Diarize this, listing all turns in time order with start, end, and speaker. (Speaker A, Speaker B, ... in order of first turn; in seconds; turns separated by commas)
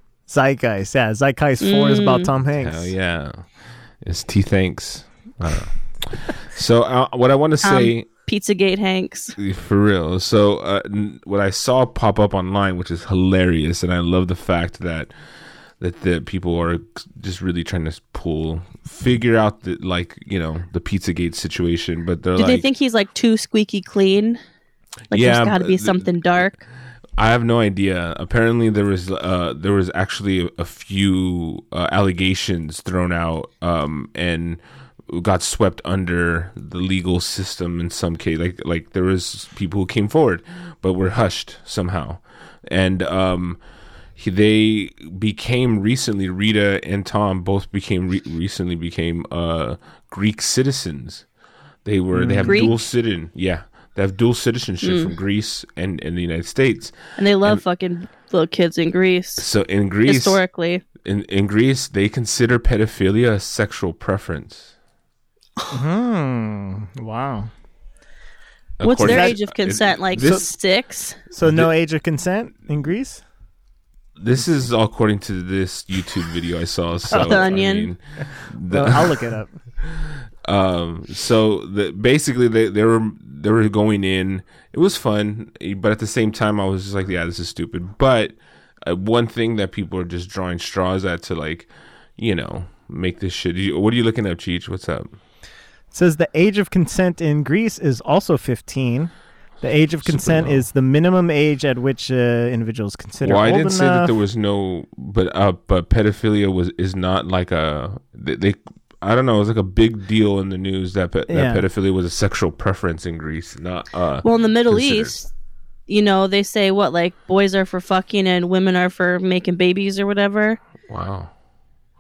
Speaker A: 0.3-3.0, Speaker B: 1.6-2.3, Speaker C: 2.5-8.1, Speaker B: 7.6-9.4, Speaker C: 9.4-15.1, Speaker C: 15.8-22.6, Speaker B: 22.4-24.4, Speaker C: 25.1-26.1, Speaker B: 25.1-26.6, Speaker C: 27.2-43.6, Speaker C: 44.2-51.3, Speaker C: 51.9-57.6, Speaker A: 52.1-52.7, Speaker B: 52.4-52.8, Speaker B: 54.8-55.1, Speaker B: 57.2-59.5, Speaker C: 59.4-60.4, Speaker B: 60.1-60.8, Speaker C: 61.0-64.7, Speaker A: 65.7-67.5, Speaker C: 68.8-70.5, Speaker B: 68.8-71.2, Speaker A: 69.0-69.4, Speaker A: 70.2-70.4, Speaker A: 71.3-73.2, Speaker C: 71.4-71.7, Speaker C: 74.2-79.3, Speaker A: 77.1-77.5, Speaker B: 77.1-77.9, Speaker A: 78.7-79.5, Speaker C: 79.8-95.2, Speaker A: 95.9-104.1, Speaker C: 100.0-100.7, Speaker C: 103.2-115.2, Speaker A: 111.3-111.7, Speaker B: 114.2-115.3, Speaker B: 115.9-120.6, Speaker C: 120.9-121.3